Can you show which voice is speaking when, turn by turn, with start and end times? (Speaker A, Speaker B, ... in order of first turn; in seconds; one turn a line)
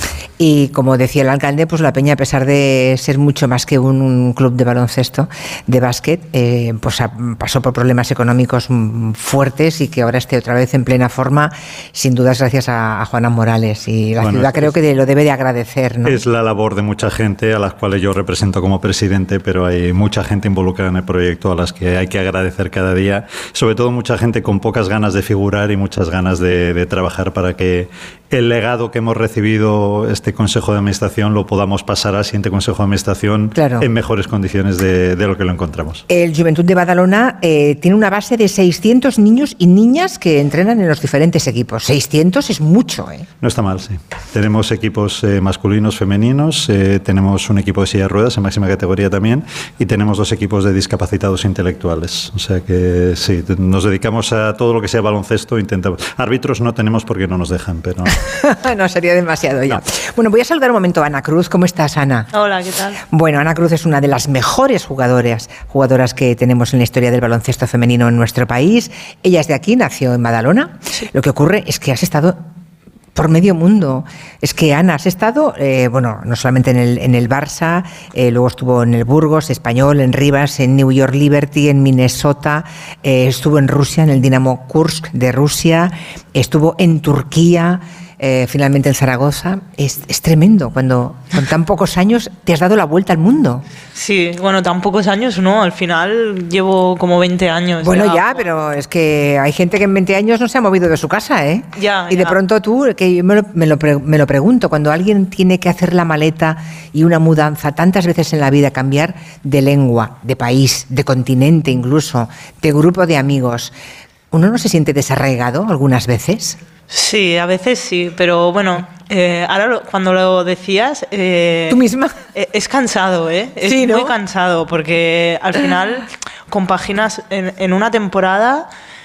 Speaker A: 0.4-16.2
Speaker B: 14.2-14.7
Speaker B: 16.0-36.0
Speaker A: 33.5-33.9
Speaker A: 36.1-43.3
Speaker B: 43.4-58.2
Speaker A: 58.1-62.3
Speaker C: 62.3-63.0
Speaker A: 63.1-72.3
Speaker A: 73.1-93.6
Speaker C: 93.9-98.4
Speaker A: 97.8-113.7
Speaker C: 101.8-102.4
Speaker A: 114.3-116.6
Speaker C: 116.9-121.8
Speaker A: 121.7-122.1
Speaker C: 122.3-128.7
Speaker A: 123.6-124.1